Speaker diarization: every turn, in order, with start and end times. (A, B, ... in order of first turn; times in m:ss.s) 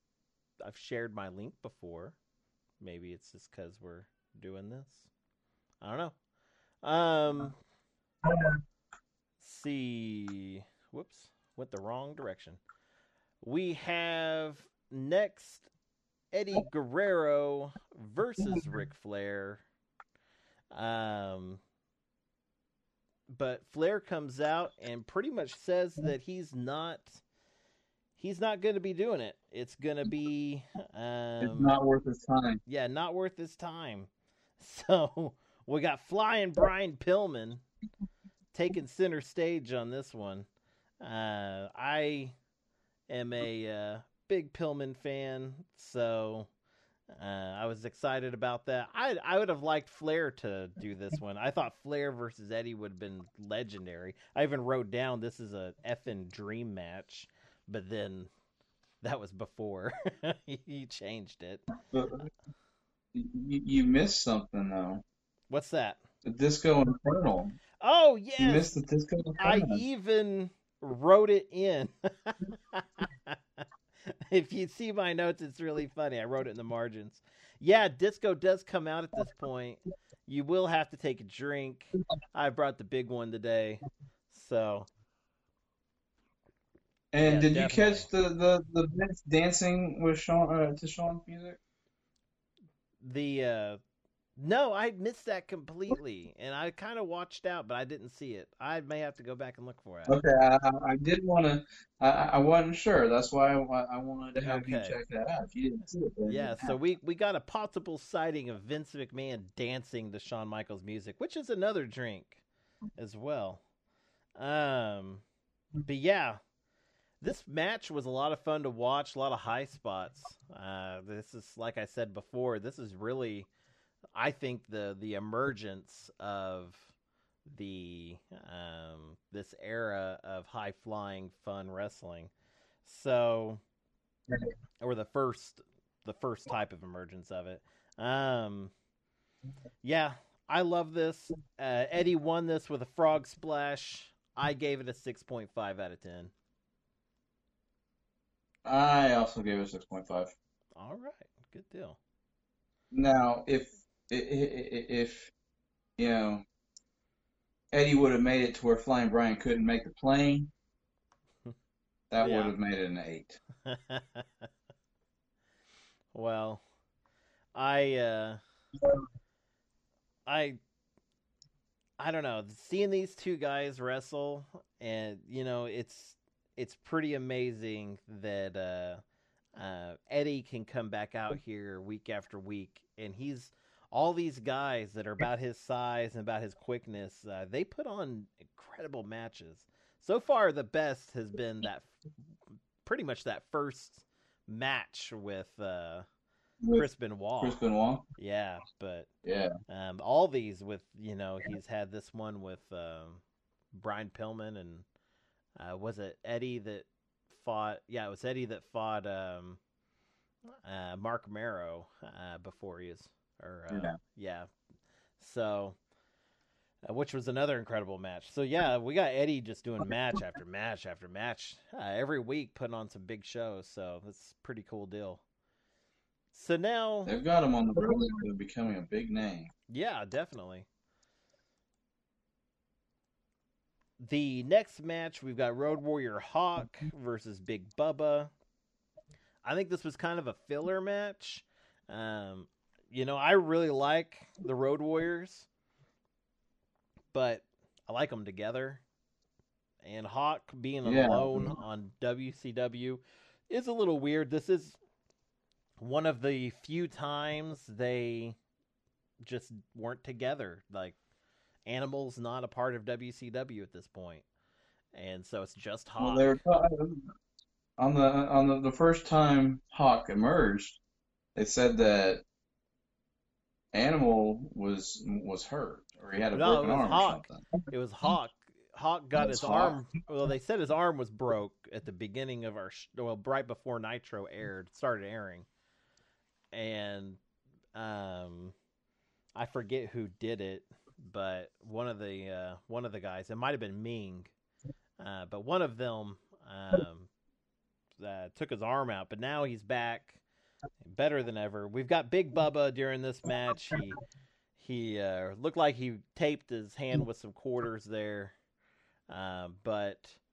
0:00.6-0:02.2 A
0:02.8-0:05.1 A
0:05.8-0:06.2 A
0:06.8-0:07.6 A
0:09.4-0:12.6 A
0:13.4-0:15.7 A
0:16.3-0:19.6 A
0:20.7-0:21.6 A
0:23.3-0:27.2 A
0:28.2-0:31.8 A
0:31.4-0:32.6 B
0:32.7-0:37.6 A
0:38.5-0:40.5 A
0:41.0-0:42.4 A
0:43.1-0:46.5 A
0:47.1-0:58.3 A
0:59.0-1:01.6 A
1:01.9-1:02.3 B
1:03.1-1:05.0 B
1:05.5-1:06.0 A
1:06.2-1:07.6 B
1:07.8-1:08.7 A
1:08.4-1:09.8 B
1:09.4-1:13.4 A
1:14.1-1:24.9 A
1:27.1-1:31.6 B
1:27.2-1:28.1 A
1:33.0-1:33.8 A
1:34.4-1:40.2 A
1:40.1-1:46.8 B
1:44.4-1:45.0 A
1:46.3-1:52.4 A
1:53.0-1:53.6 A
1:54.4-1:55.2 A
1:55.8-1:56.4 A
1:57.2-2:03.5 A
2:04.2-2:06.9 A
2:07.5-2:12.3 A
2:12.8-2:13.6 A
2:14.8-2:18.7 A
2:19.8-2:26.3 A
2:28.6-2:30.3 B
2:30.8-2:32.0 A
2:32.9-2:35.3 B
2:36.0-2:36.4 B
2:37.7-2:40.5 B
2:42.1-2:43.4 B
2:42.2-2:42.5 A
2:43.7-2:44.3 A
2:46.1-2:46.6 A
2:47.6-2:48.4 A
2:50.3-2:50.6 A
2:52.0-2:59.0 A
2:59.6-3:11.9 A
3:12.8-3:16.1 A
3:16.8-3:17.6 A
3:17.4-3:18.0 B
3:18.2-3:19.1 A
3:19.2-3:19.5 B
3:19.7-3:23.2 A
3:23.7-3:24.8 A
3:25.6-3:29.6 A
3:30.6-3:34.5 A
3:33.7-3:34.0 B
3:35.2-3:35.8 A
3:36.8-3:45.2 A
3:46.3-3:47.1 A
3:47.1-3:49.5 B
3:49.7-3:50.7 A
3:54.0-3:58.3 A
3:59.4-4:05.5 A
4:07.1-4:08.8 A
4:09.8-4:14.8 A
4:10.8-4:11.6 B
4:15.8-4:18.4 A
4:19.2-4:21.0 A
4:21.7-4:24.2 A
4:24.9-4:26.4 A
4:26.0-4:27.1 B
4:27.8-4:30.8 B
4:31.4-4:32.2 B
4:33.7-4:37.5 B
4:36.3-4:45.5 A
4:39.2-4:39.8 B
4:46.5-4:47.2 A
4:47.8-4:48.6 A
4:49.4-4:54.3 A
4:55.0-4:57.1 A
4:58.0-5:00.2 A
5:00.8-5:04.0 A
5:04.6-5:08.3 A
5:09.1-5:10.2 A